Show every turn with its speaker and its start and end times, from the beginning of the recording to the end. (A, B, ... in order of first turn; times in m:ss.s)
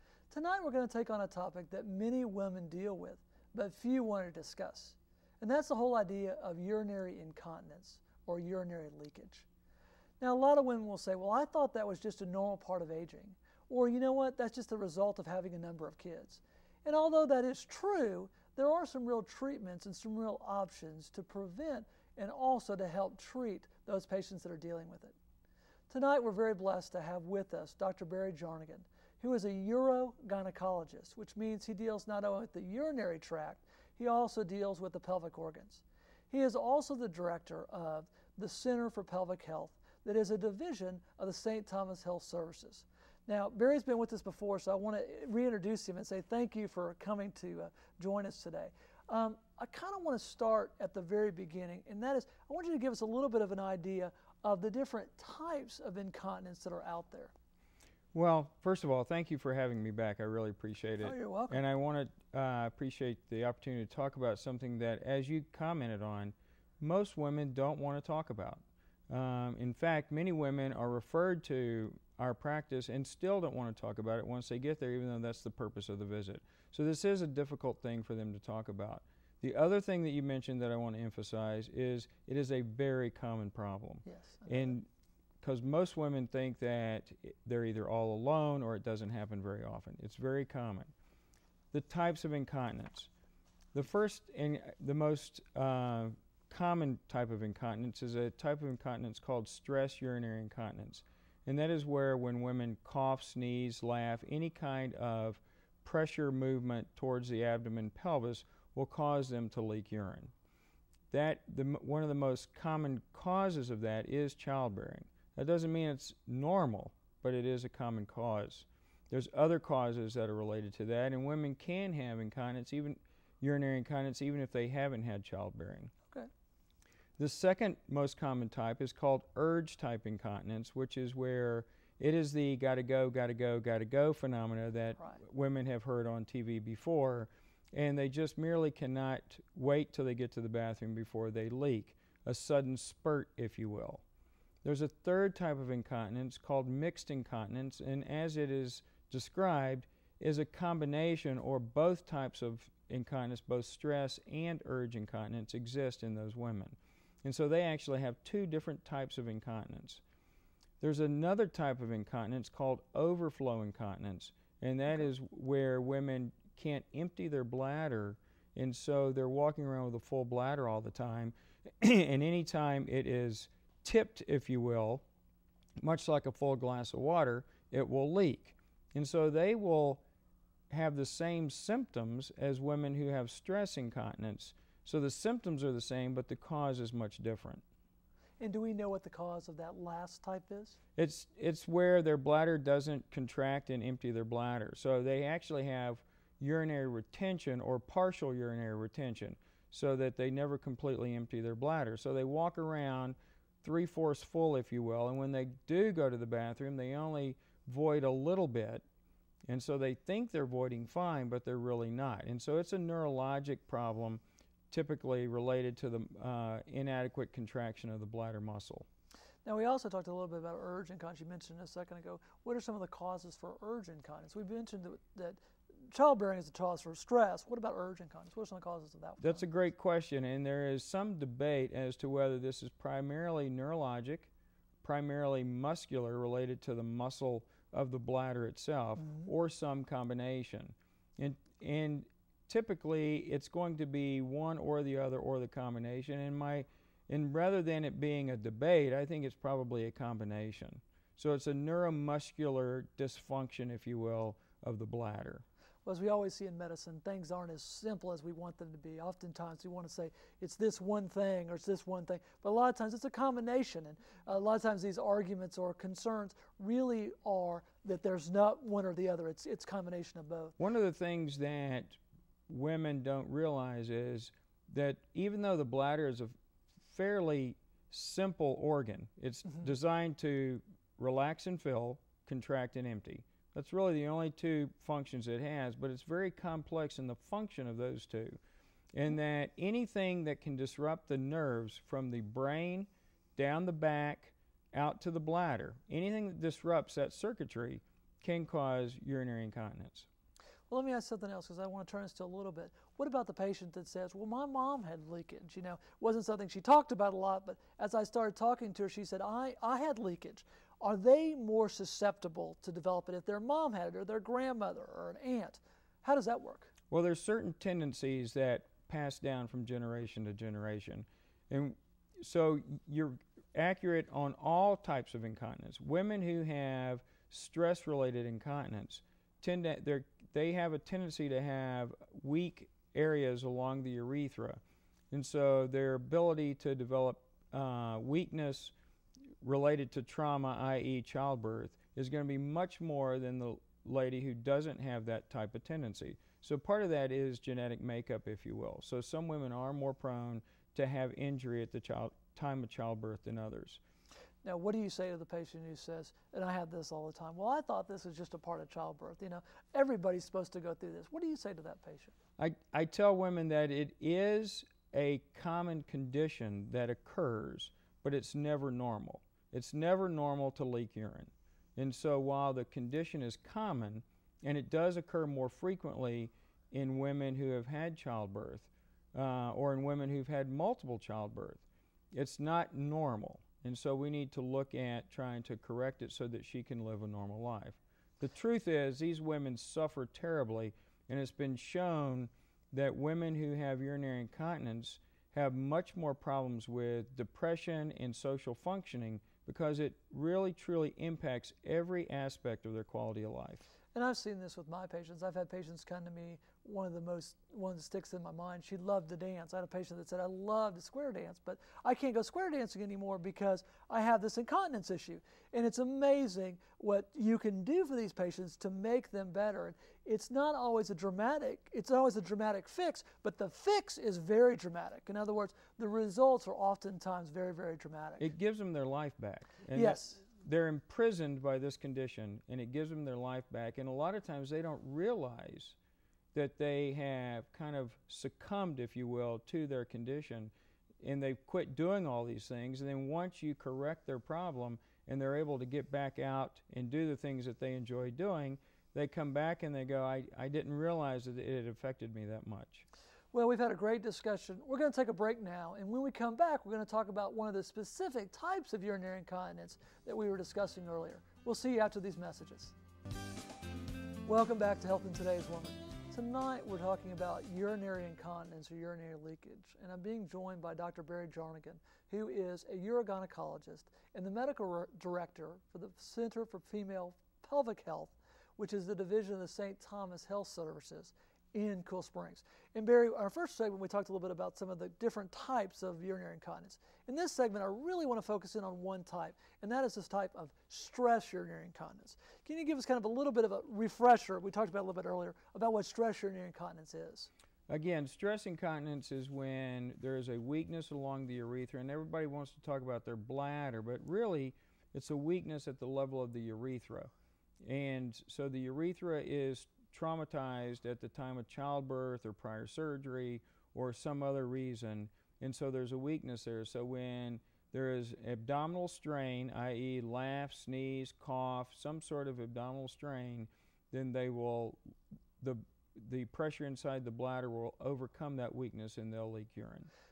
0:00.3-0:09.4 A
0:10.2-0:25.2 A
0:25.9-0:57.3 A
0:58.1-1:24.8 B
1:01.0-1:01.6 A
1:24.0-1:24.8 A
1:25.4-1:30.9 B
1:31.7-1:33.1 B
1:33.7-1:50.3 B
1:51.1-2:05.9 B
2:07.2-2:24.0 B
2:24.6-2:40.0 B
2:40.8-2:55.0 B
2:55.8-3:00.0 B
3:00.7-3:07.6 B
3:08.4-3:10.8 A
3:11.0-3:28.8 B
3:29.5-3:38.8 B
3:39.4-3:49.4 A
3:49.2-3:54.3 B
3:54.8-4:15.4 B
4:15.8-4:30.6 A
4:30.6-4:48.4 B
4:48.9-5:00.1 B
5:00.7-5:16.7 A
5:16.9-5:38.7 B
5:39.4-5:53.8 B
5:54.4-6:02.1 A
6:02.4-6:43.6 B
6:43.9-7:08.3 A
7:08.2-7:15.8 B
7:09.7-7:10.2 A
7:16.3-7:32.8 B
7:33.3-7:42.7 A
7:44.2-8:17.3 A
8:17.7-8:44.8 B
8:45.4-8:49.9 B